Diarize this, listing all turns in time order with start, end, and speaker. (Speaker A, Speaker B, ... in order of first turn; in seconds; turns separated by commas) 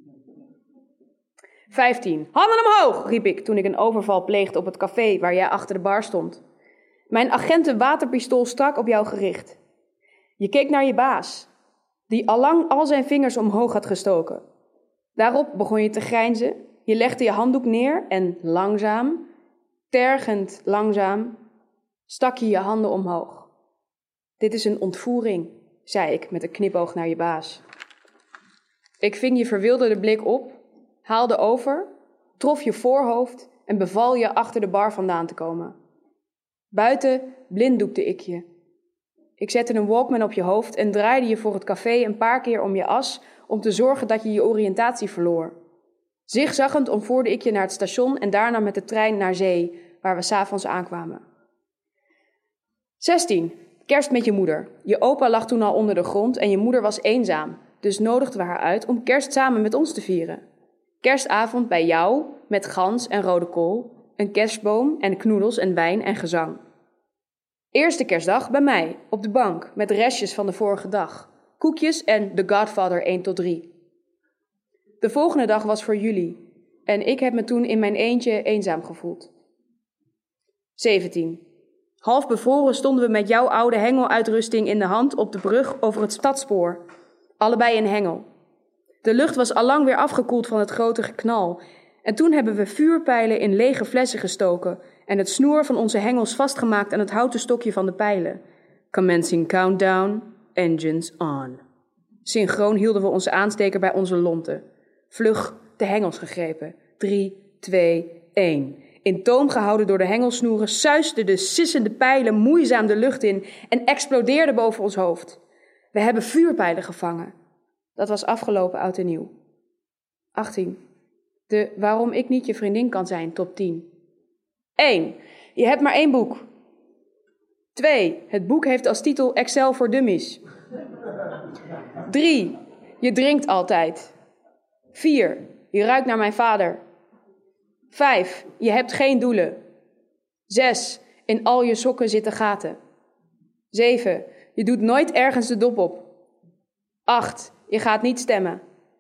Speaker A: 1.7-6.4, Speaker A: 7.1-9.6, Speaker A: 10.4-11.5, Speaker A: 12.1-14.4, Speaker A: 15.2-19.3, Speaker A: 19.9-21.4, Speaker A: 22.1-23.5, Speaker A: 24.4-27.6, Speaker A: 29.0-31.9, Speaker A: 32.4-35.7, Speaker A: 36.7-38.4, Speaker A: 39.4-45.5, Speaker A: 46.3-51.2, Speaker A: 53.0-60.4, Speaker A: 61.0-66.6, Speaker A: 67.7-73.7, Speaker A: 75.0-79.3, Speaker A: 80.8-81.4, Speaker A: 82.0-86.8, Speaker A: 87.4-88.2, Speaker A: 89.0-98.4, Speaker A: 98.9-101.6, Speaker A: 102.2-115.4, Speaker A: 115.9-117.3, Speaker A: 118.0-119.3, Speaker A: 120.3-120.8, Speaker A: 121.5-123.9, Speaker A: 124.8-126.5, Speaker A: 127.7-130.4, Speaker A: 132.1-134.1, Speaker A: 134.9-136.8, Speaker A: 137.9-139.6, Speaker A: 140.5-142.8, Speaker A: 143.7-146.1, Speaker A: 147.1-148.6